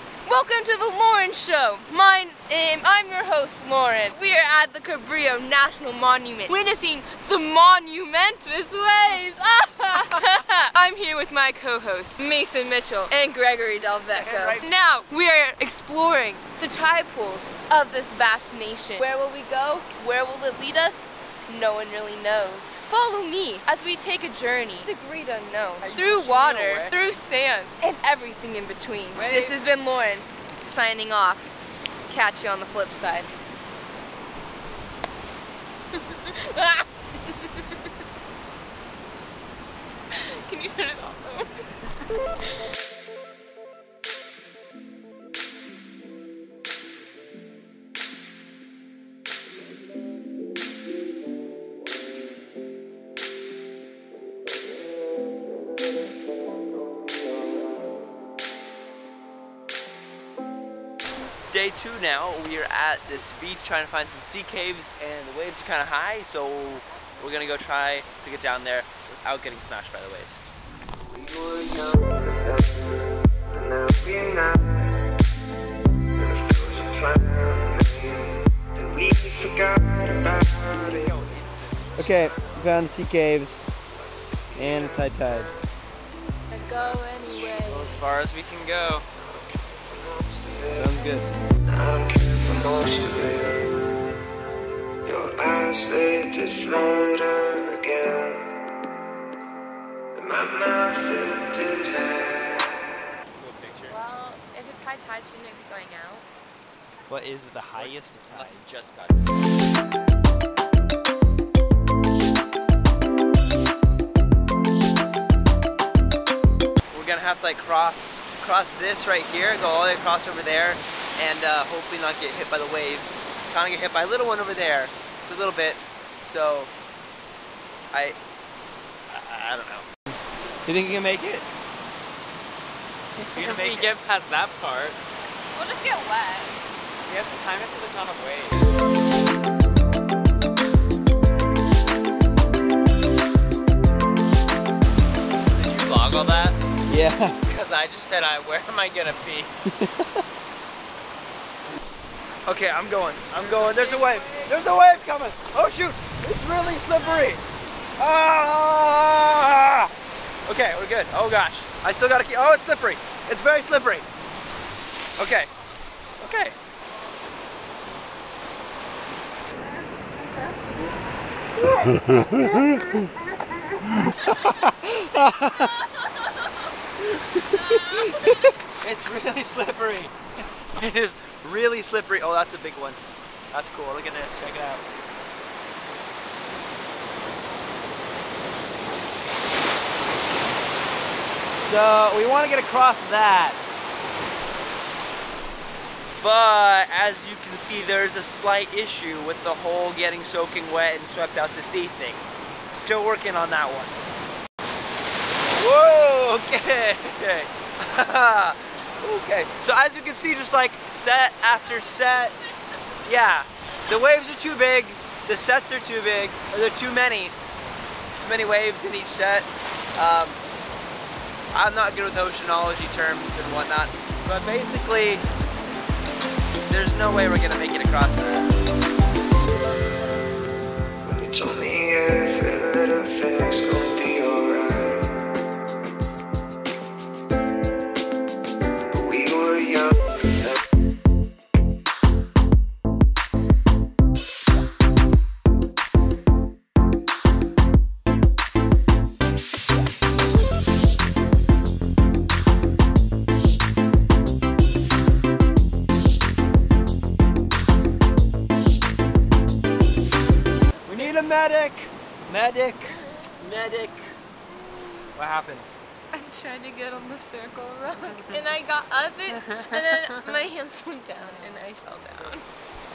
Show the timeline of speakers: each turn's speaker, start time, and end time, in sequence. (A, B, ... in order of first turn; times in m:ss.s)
0:00.2-0:31.5 A
0:14.2-0:14.6 B
0:25.8-0:27.0 C
0:29.1-0:29.6 B
0:32.1-0:33.3 A
0:36.0-0:37.8 A
0:40.1-0:41.7 A
1:01.5-1:10.5 B
1:10.9-1:14.9 D
1:16.1-1:21.0 D
1:20.8-1:22.3 C
1:22.0-1:23.7 B
1:24.5-1:25.5 B
1:24.6-1:25.1 D
1:26.5-1:28.0 A
1:27.6-1:29.1 C
1:29.2-1:30.9 D
1:30.7-1:31.3 B
1:31.6-1:33.8 D
1:35.0-1:38.5 D
1:40.1-1:42.8 D
1:43.4-1:44.0 C
1:43.9-1:46.2 A
1:47.1-1:48.8 B
1:47.7-1:49.2 C
1:56.9-2:06.7 B
2:07.9-2:08.2 B
2:09.1-2:09.9 B
2:10.6-2:11.4 B
2:13.2-2:13.9 B
2:13.3-2:15.0 C
2:15.5-2:16.6 A
2:17.0-2:18.7 C
2:25.5-2:26.6 C
2:26.9-2:27.4 B
2:27.4-2:29.5 C
2:29.7-2:30.1 B
2:32.4-2:37.4 B
2:33.4-2:34.5 C
2:38.0-2:39.9 B
2:40.4-2:44.0 B
2:45.2-2:45.5 B
2:46.2-2:46.6 B
2:54.1-2:55.8 B
2:57.0-3:03.0 B
2:57.6-2:58.5 A
3:03.5-3:04.8 B
3:11.6-3:13.6 B
3:16.2-3:24.0 B
3:25.5-3:32.4 B
3:33.0-3:37.3 B
3:38.2-3:40.4 B
3:41.5-3:45.2 B
3:46.7-3:48.5 B
3:51.0-3:55.3 D
3:58.9-4:00.5 D
4:20.7-4:21.2 A
4:20.9-4:24.1 B
4:25.1-4:25.8 B
4:26.1-4:32.4 A
4:29.4-4:30.4 C